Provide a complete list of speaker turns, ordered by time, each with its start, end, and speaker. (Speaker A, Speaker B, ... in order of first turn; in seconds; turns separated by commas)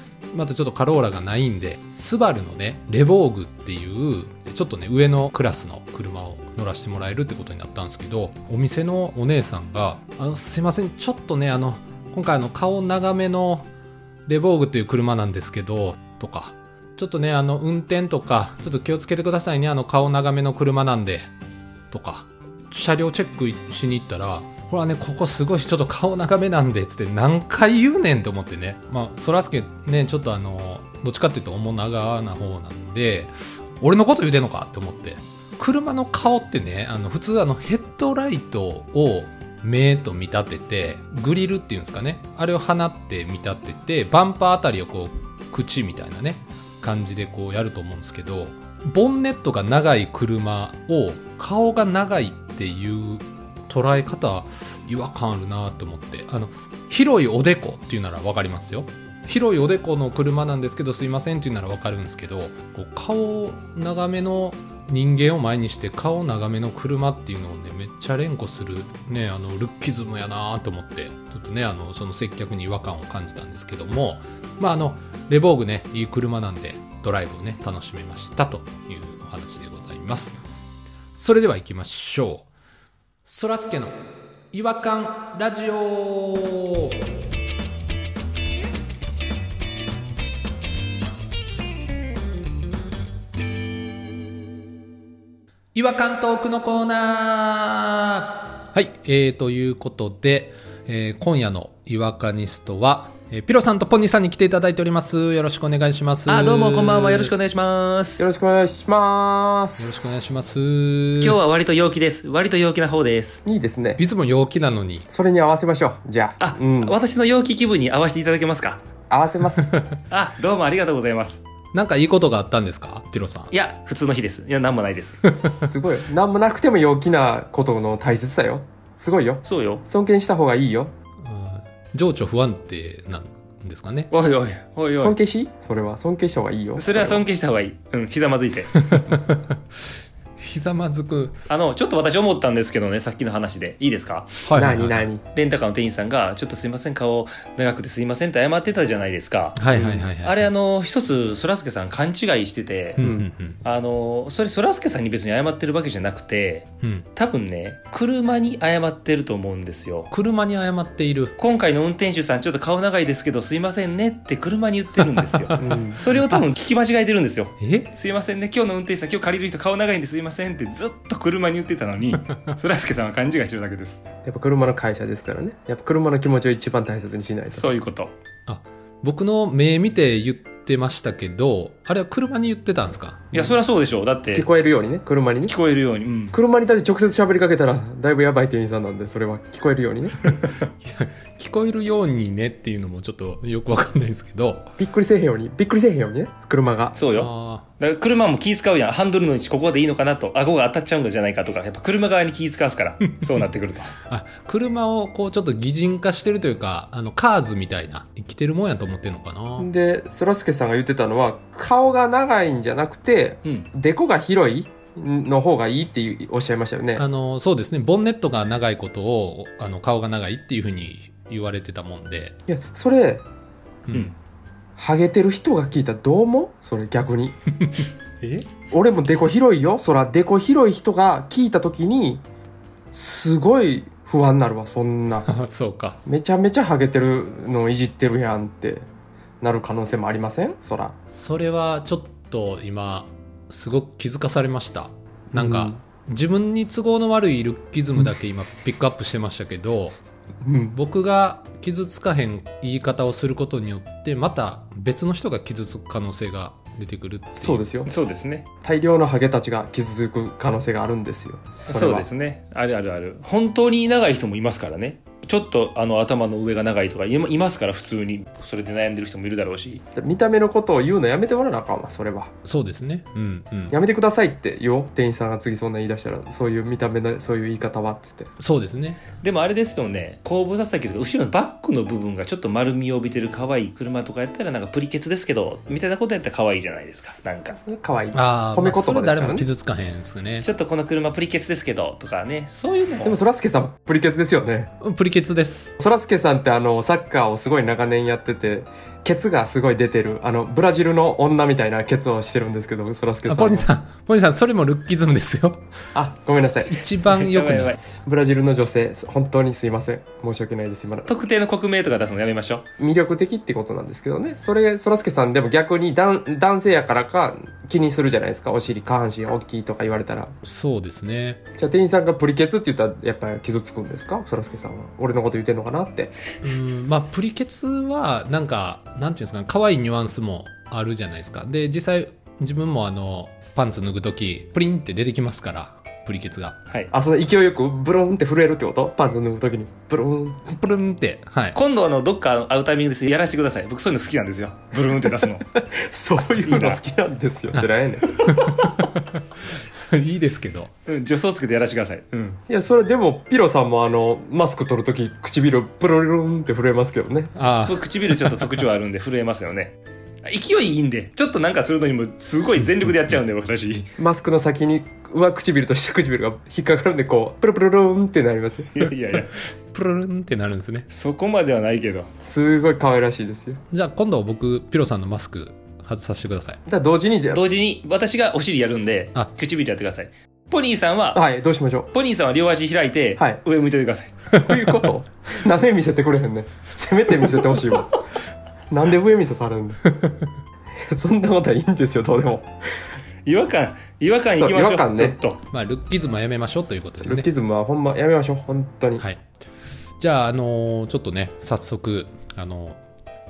Speaker A: 0.3-13.7, Speaker A: 14.3-21.3, Speaker A: 21.9-80.4, Speaker A: 81.2-82.5, Speaker A: 83.2-87.0, Speaker A: 95.7-107.3, Speaker B: 106.3-108.3, Speaker C: 108.2-110.2, Speaker A: 109.8-111.4, Speaker B: 111.2-113.4, Speaker C: 113.5-114.0, Speaker A: 114.0-115.1, Speaker C: 115.1-117.0, Speaker B: 116.4-118.8, Speaker C: 119.1-119.8, Speaker B: 120.1-121.4, Speaker A: 121.7-123.5, Speaker B: 123.5-125.2, Speaker C: 125.7-130.9, Speaker B: 129.4-129.8, Speaker A: 131.2-134.1, Speaker B: 134.1-135.2, Speaker C: 135.0-137.2, Speaker B: 136.8-138.8, Speaker A: 138.9-139.6, Speaker A: 140.4-141.4, Speaker B: 141.5-144.4, Speaker A: 144.4-145.1, Speaker C: 144.6-145.2, Speaker B: 145.3-149.6, Speaker A: 149.6-150.5, Speaker C: 149.7-150.1, Speaker B: 150.2-153.0, Speaker A: 153.0-153.6, Speaker C: 153.0-153.2, Speaker B: 153.6-160.1, Speaker A: 156.8-157.1, Speaker A: 160.1-161.3, Speaker B: 161.4-174.0, Speaker A: 165.5-166.4, Speaker C: 165.6-166.0, Speaker A: 167.6-167.9, Speaker C: 174.2-177.7, Speaker B: 177.5-178.1, Speaker A: 178.5-183.6, Speaker B: 183.3-184.5, Speaker C: 184.3-185.6, Speaker B: 185.4-186.4, Speaker C: 186.3-190.3, Speaker A: 190.6-194.7, Speaker C: 194.8-196.9, Speaker B: 196.9-203.9, Speaker A: 197.1-197.7, Speaker A: 203.1-203.4, Speaker A: 204.1-209.7, Speaker C: 209.6-217.1, Speaker A: 217.0-222.4, Speaker C: 222.5-223.2, Speaker C: 224.8-227.3, Speaker A: 227.6-228.5, Speaker C: 228.7-232.2, Speaker C: 232.9-235.3, Speaker A: 235.3-236.0, Speaker C: 236.1-238.9, Speaker C: 239.4-240.9, Speaker A: 241.1-250.0, Speaker C: 245.3-245.8, Speaker C: 250.4-250.8, Speaker A: 250.7-257.6, Speaker C: 257.4-257.9, Speaker B: 257.9-258.5, Speaker C: 258.6-262.1, Speaker B: 261.7-269.8, Speaker C: 269.9-272.3, Speaker A: 272.4-273.8, Speaker C: 273.7-278.3, Speaker A: 278.4-279.0, Speaker B: 279.2-287.6, Speaker C: 287.6-289.5, Speaker A: 288.1-290.5, Speaker B: 290.4-293.2, Speaker C: 293.0-294.7, Speaker A: 294.8-295.7, Speaker C: 295.8-303.7, Speaker A: 303.3-305.7, Speaker C: 305.9-306.8, Speaker A: 306.7-307.8, Speaker B: 307.1-307.8, Speaker C: 308.0-311.1, Speaker B: 311.1-312.6, Speaker C: 312.8-320.3, Speaker A: 320.4-321.4, Speaker C: 321.6-326.1, Speaker A: 326.4-336.6, Speaker C: 336.9-340.6, Speaker A: 340.6-341.6, Speaker B: 341.5-345.5, Speaker C: 345.6-348.2, Speaker B: 346.4-346.8, Speaker A: 347.6-350.7, Speaker B: 350.9-352.4, Speaker C: 352.5-357.3, Speaker A: 357.4-358.5, Speaker B: 357.7-363.9, Speaker C: 364.0-368.8, Speaker B: 368.8-369.3, Speaker A: 369.7-370.9, Speaker B: 370.9-372.1, Speaker C: 372.2-373.6, Speaker A: 373.7-376.6, Speaker C: 376.7-377.4, Speaker B: 377.3-381.2, Speaker C: 381.1-381.9, Speaker B: 381.9-384.2, Speaker C: 384.3-388.0, Speaker C: 388.7-389.8, Speaker C: 390.9-392.5, Speaker B: 393.3-395.4, Speaker C: 394.4-395.2, Speaker A: 395.5-397.3, Speaker C: 397.0-399.1, Speaker A: 400.0-402.8